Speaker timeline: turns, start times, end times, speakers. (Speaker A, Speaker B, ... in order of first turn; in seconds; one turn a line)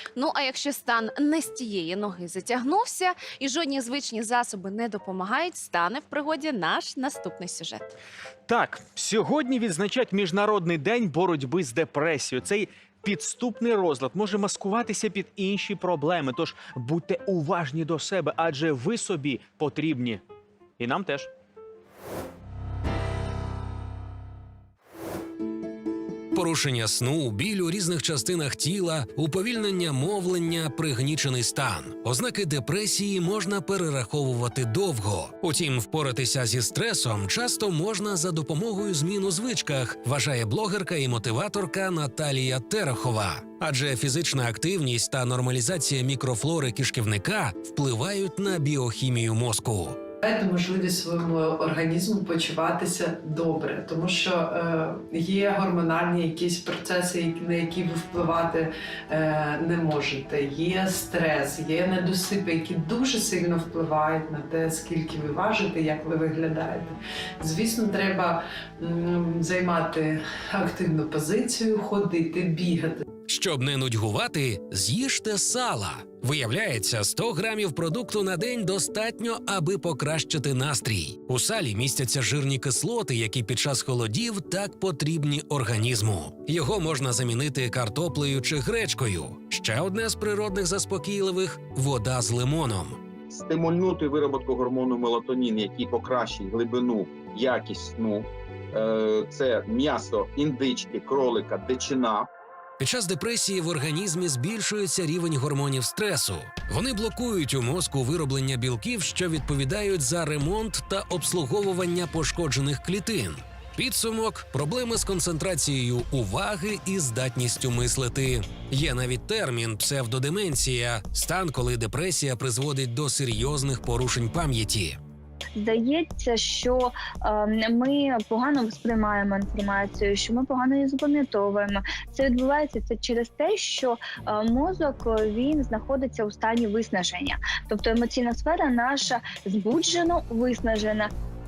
Speaker A: 0.1-7.9
Speaker B: 8.5-20.2
Speaker B: 20.8-21.3
Speaker C: 26.3-50.0
Speaker D: 50.2-73.0
Speaker C: 73.3-93.0
Speaker E: 93.3-102.3
Speaker C: 102.8-125.0
Speaker F: 125.5-141.1